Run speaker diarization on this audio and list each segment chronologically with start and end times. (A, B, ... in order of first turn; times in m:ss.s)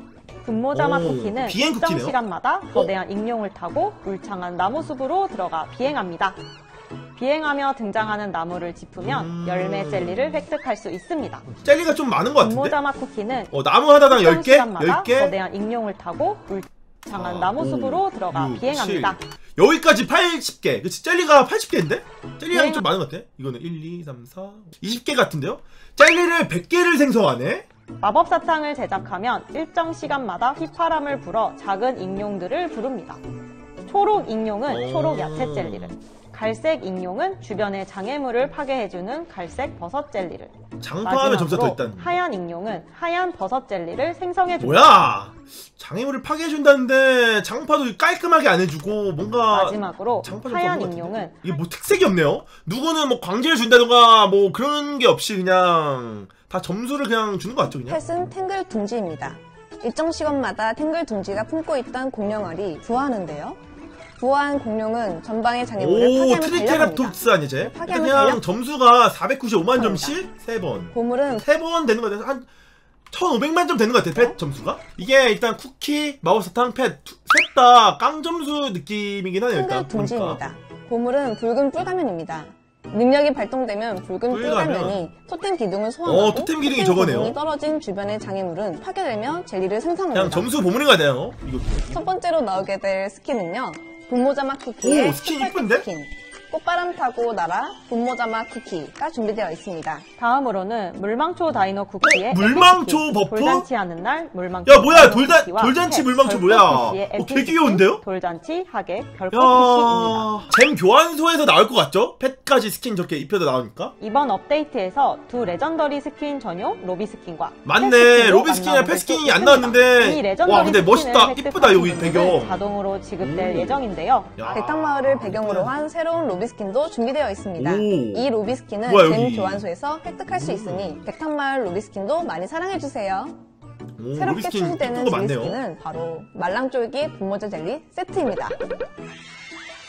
0:00.4-0:06.4 A
0:00.7-0:02.2 B
0:07.1-0:11.5 A
0:09.0-0:10.5 B
0:11.6-0:12.8 B
0:12.4-0:13.5 A
0:13.5-0:15.4 B
0:14.1-0:19.2 A
0:17.1-0:27.7 B
0:22.5-0:22.9 A
0:28.0-0:33.2 A
0:33.8-0:44.9 A
0:34.7-0:36.0 B
0:40.8-0:42.2 B
0:44.6-0:58.0 B
0:49.5-0:51.4 A
0:57.8-1:03.6 C
1:04.2-1:08.4 C
1:05.8-1:10.9 B
1:09.7-1:10.2 C
1:10.9-1:11.5 C
1:11.4-1:12.4 B
1:13.1-1:20.4 B
1:19.5-1:30.5 C
1:24.3-1:25.1 B
1:26.0-1:27.4 B
1:30.1-1:32.0 B
1:31.8-1:40.0 C
1:34.8-1:35.8 B
1:40.2-1:50.3 A
1:42.0-1:43.7 B
1:44.6-1:48.0 B
1:49.3-1:53.9 B
1:54.0-2:04.3 A
1:57.6-2:02.6 B
2:03.2-2:03.8 B
2:04.4-2:05.7 B
2:04.5-2:13.4 C
2:07.6-2:08.2 B
2:08.8-2:09.6 B
2:10.4-2:11.0 B
2:14.0-2:15.6 B
2:14.1-2:18.6 C